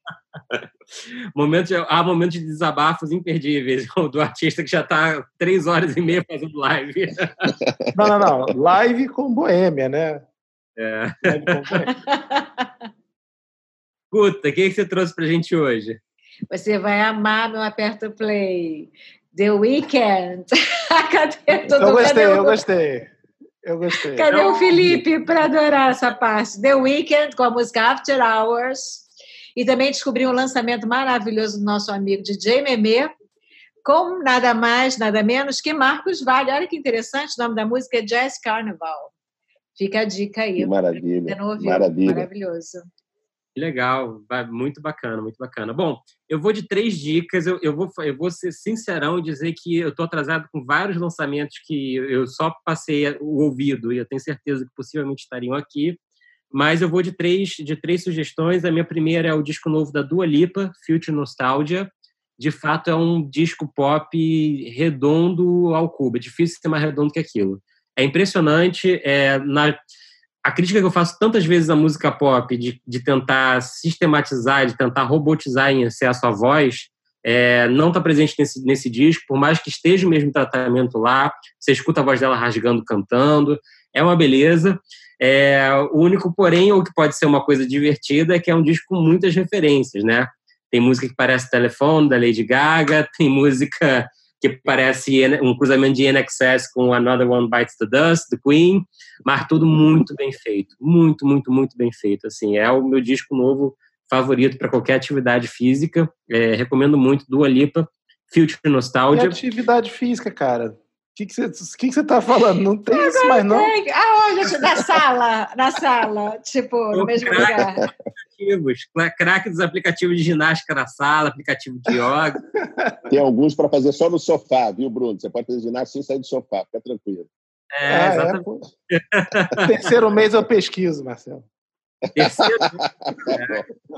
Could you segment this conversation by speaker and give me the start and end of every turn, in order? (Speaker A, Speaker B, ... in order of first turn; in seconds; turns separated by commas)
Speaker A: 0.5-7.5, Speaker B: 7.5-8.5, Speaker C: 7.9-10.2, Speaker A: 10.8-11.9, Speaker C: 11.2-11.9, Speaker D: 11.9-12.7, Speaker A: 14.1-16.0, Speaker D: 16.5-22.6, Speaker C: 21.8-23.1, Speaker C: 23.6-24.8, Speaker D: 23.9-33.1, Speaker A: 24.3-24.6, Speaker D: 33.9-39.1, Speaker D: 39.8-42.9, Speaker B: 40.6-42.3, Speaker A: 43.6-56.0, Speaker A: 56.5-69.8, Speaker A: 70.5-109.4, Speaker C: 109.1-113.7, Speaker D: 112.9-117.8, Speaker A: 116.9-117.7, Speaker A: 118.3-122.4, Speaker B: 123.1-127.3, Speaker A: 127.7-129.6, Speaker C: 127.9-128.6, Speaker C: 129.6-131.5, Speaker A: 132.2-133.6, Speaker B: 132.2-133.7